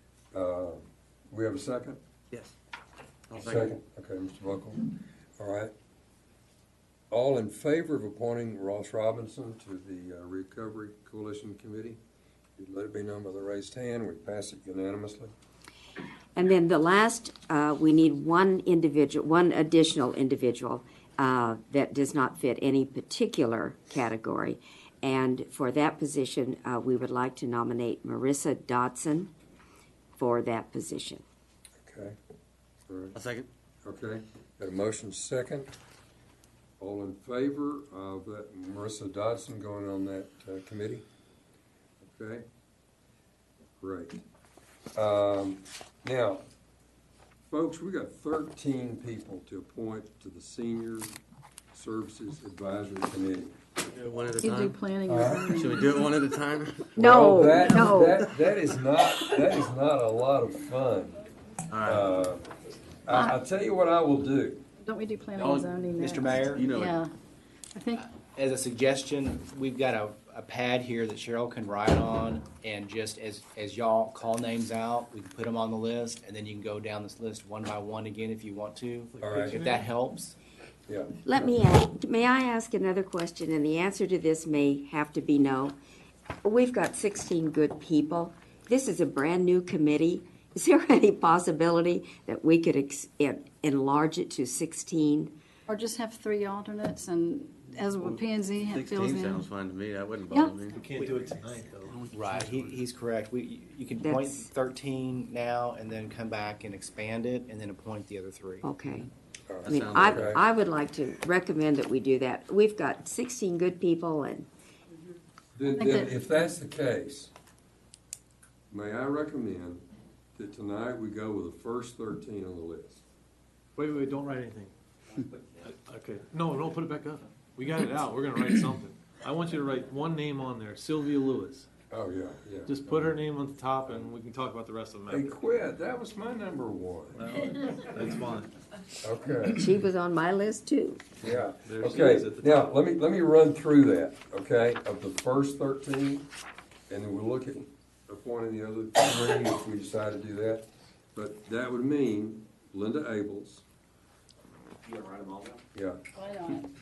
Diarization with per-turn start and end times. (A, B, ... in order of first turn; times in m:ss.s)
0:00.3-0:02.0 A
0:03.3-0:03.8 B
0:03.4-0:05.7 A
0:07.1-0:12.0 A
0:12.6-0:15.3 A
0:16.4-0:29.3 C
0:30.2-0:31.2 C
0:31.8-0:32.2 A
0:32.9-0:33.2 A
0:33.1-0:33.5 B
0:33.8-0:35.7 A
0:36.8-0:41.0 A
0:42.0-0:42.4 A
0:43.8-0:44.2 A
0:45.0-0:46.4 A
0:47.5-0:51.1 A
0:51.7-0:53.6 A
0:53.9-0:54.8 B
0:54.4-0:56.1 D
0:55.1-0:55.6 A
0:55.6-0:57.0 B
0:57.0-0:58.3 D
0:57.0-1:01.2 A
0:57.1-0:57.4 C
1:01.7-1:02.0 B
1:01.8-1:02.5 A
1:03.1-1:04.6 A
1:03.1-1:03.4 D
1:04.8-1:07.1 D
1:05.4-1:05.7 B
1:06.0-1:06.7 E
1:06.5-1:07.0 B
1:07.7-1:08.1 D
1:08.0-1:20.4 E
1:19.1-1:19.9 F
1:19.2-1:19.6 A
1:20.9-1:21.2 A
1:21.2-1:25.8 C
1:26.4-1:35.3 C
1:35.7-1:39.4 D
1:38.7-1:40.8 B
1:40.7-1:42.8 F
1:40.9-1:41.3 E
1:41.9-1:48.7 E
1:44.0-1:44.4 C
1:48.6-1:49.1 C
1:49.5-1:50.4 A
1:49.6-1:50.4 B
1:49.7-1:54.5 C
1:55.6-1:57.3 A
1:55.7-1:56.2 D
1:58.7-2:03.0 A
2:03.8-2:04.7 F
2:05.6-2:11.7 F
2:11.9-2:13.1 A
2:12.7-2:15.4 F
2:15.1-2:17.2 A
2:17.1-2:18.5 F
2:19.0-2:19.6 A
2:19.5-2:21.1 C
2:21.2-2:26.3 A
2:21.6-2:22.7 F
2:26.9-2:33.6 A
2:35.7-2:36.0 A
2:36.1-2:36.7 D